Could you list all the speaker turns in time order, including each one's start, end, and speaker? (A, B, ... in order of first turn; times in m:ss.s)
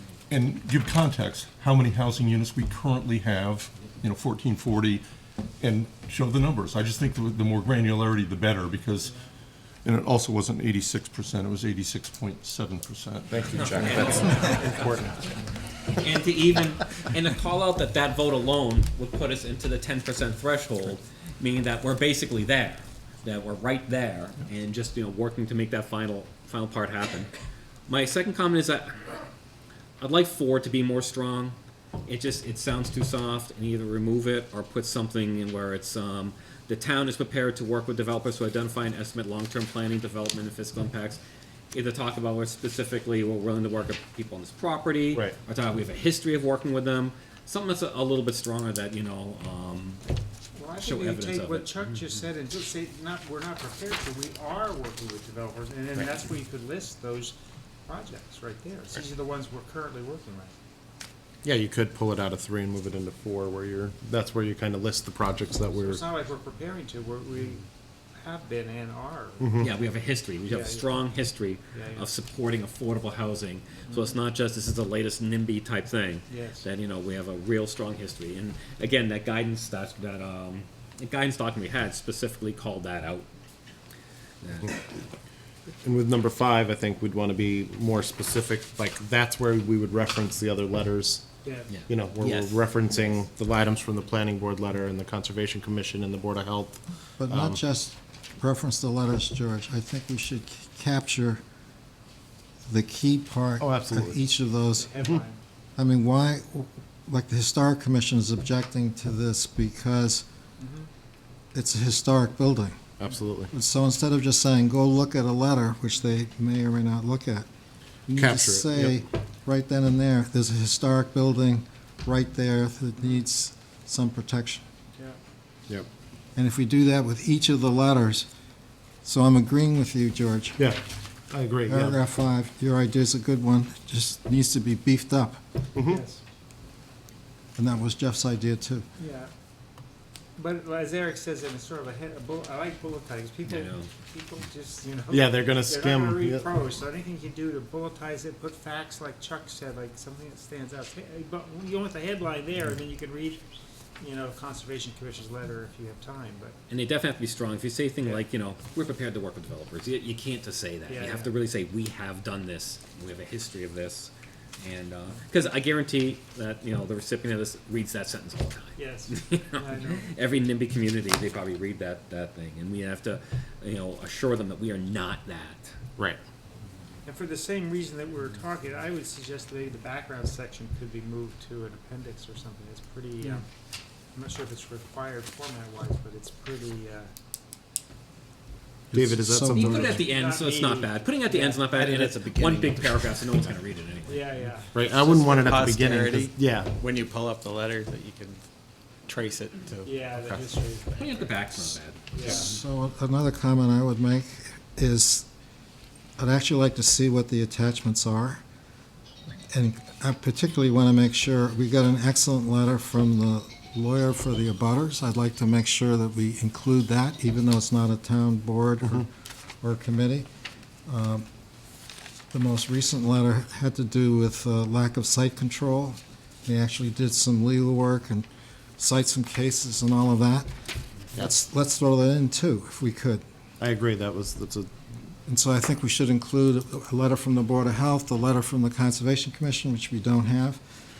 0:00.3-0:05.0 A
0:05.6-0:09.2 A
0:09.8-0:14.3 A
0:13.3-0:15.2 B
0:13.5-0:14.8 C
0:15.9-0:27.3 C
0:27.9-0:29.1 C
0:30.0-0:41.2 C
0:41.7-0:50.0 C
0:50.6-0:57.4 D
0:50.8-0:52.0 C
0:57.9-1:00.5 D
1:01.4-1:06.0 B
1:05.7-1:09.5 D
1:09.4-1:09.7 B
1:09.6-1:23.3 C
1:10.5-1:10.9 D
1:11.7-1:12.1 D
1:16.3-1:16.6 D
1:24.4-1:24.9 C
1:25.8-1:31.3 B
1:31.4-1:31.7 D
1:31.9-1:37.6 B
1:37.2-1:41.4 E
1:42.7-1:45.0 E
1:43.6-1:44.2 B
1:44.8-1:45.4 D
1:45.8-1:50.2 E
1:50.6-1:50.9 D
1:51.5-1:52.8 E
1:53.0-1:53.5 B
1:53.5-1:57.5 E
1:58.1-2:04.6 E
1:58.2-1:59.0 B
2:06.4-2:08.3 E
2:09.0-2:10.6 E
2:10.6-2:12.0 B
2:11.7-2:15.4 E
2:15.8-2:16.0 B
2:15.8-2:16.2 D
2:17.6-2:18.9 E
2:19.0-2:19.3 D
2:20.4-2:33.4 D
2:23.5-2:23.9 C
2:25.1-2:26.5 B
2:34.0-2:36.6 D
2:36.7-2:55.7 C
2:40.9-2:41.3 D
2:48.8-2:50.1 D
2:57.1-3:03.5 D
3:04.2-3:07.1 D
3:08.9-3:10.1 B
3:08.9-3:10.0 E
3:09.5-3:14.3 C
3:10.1-3:11.7 D
3:14.1-3:14.8 D
3:14.7-3:16.7 B
3:15.5-3:15.9 F
3:16.8-3:18.4 F
3:19.1-3:20.4 F
3:19.8-3:21.4 D
3:20.9-3:22.3 C
3:22.1-3:22.5 D
3:22.2-3:25.3 E
3:26.2-3:28.4 E
3:29.5-3:40.3 E
3:40.9-3:41.3 E
3:42.3-3:50.5 E
3:51.1-3:53.2 E
3:53.6-3:54.7 B
3:55.3-4:00.6 E